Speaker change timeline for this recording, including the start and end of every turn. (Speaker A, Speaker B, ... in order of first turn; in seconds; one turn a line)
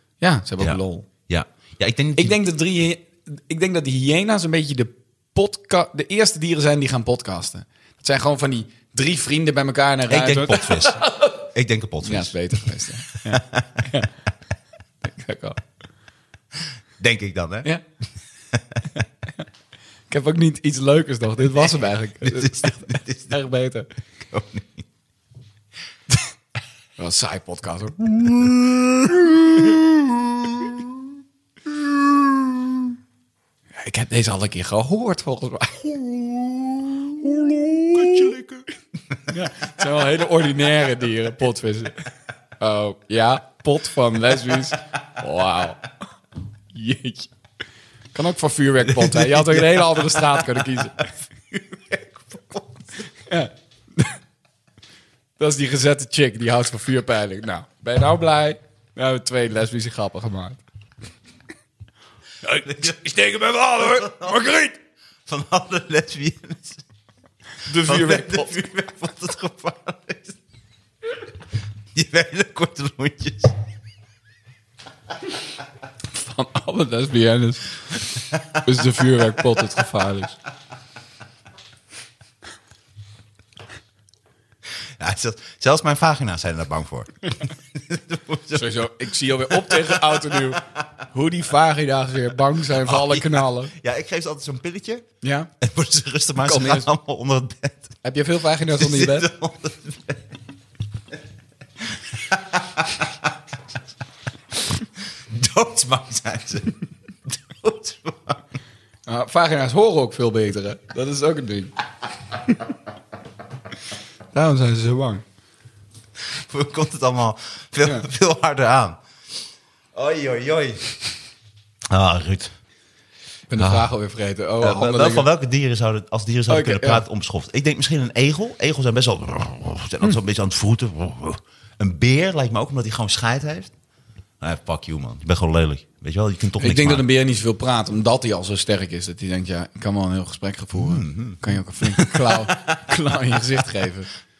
Speaker A: 0.2-1.1
Speaker B: 0.6-2.4
Speaker A: 2.1-11.4
Speaker B: 10.1-12.3
Speaker A: 12.0-14.1
Speaker B: 13.3-13.8
Speaker A: 15.0-15.6
Speaker B: 17.0-17.7
Speaker B: 18.5-18.8
Speaker A: 20.1-23.9
Speaker B: 22.2-23.3
Speaker B: 24.2-24.9
Speaker A: 27.0-30.8
Speaker A: 31.8-32.9
Speaker A: 33.8-38.3
Speaker B: 37.9-39.2
Speaker A: 39.3-42.0
Speaker A: 42.6-45.8
Speaker A: 46.7-47.3
Speaker A: 48.1-51.0
Speaker B: 48.9-53.0
Speaker A: 53.3-54.1
Speaker A: 55.4-60.6
Speaker B: 62.4-64.6
Speaker A: 63.5-64.7
Speaker B: 65.2-66.8
Speaker A: 67.6-68.5
Speaker B: 67.6-70.4
Speaker B: 71.9-73.6
Speaker A: 76.1-80.3
Speaker B: 85.0-88.8
Speaker A: 88.5-93.7
Speaker B: 89.5-90.6
Speaker B: 92.7-95.0
Speaker A: 95.2-95.5
Speaker B: 95.6-98.0
Speaker A: 96.4-96.9
Speaker A: 98.0-99.3
Speaker B: 98.7-100.4
Speaker B: 101.8-103.3
Speaker B: 104.7-108.4
Speaker A: 109.1-111.7
Speaker A: 114.3-115.2
Speaker B: 116.2-119.0
Speaker B: 119.9-121.0
Speaker B: 121.9-122.5
Speaker A: 123.5-125.3
Speaker B: 123.6-123.9
Speaker B: 124.6-133.7
Speaker A: 126.5-127.0
Speaker B: 134.4-137.0
Speaker A: 136.6-144.1
Speaker B: 140.7-143.4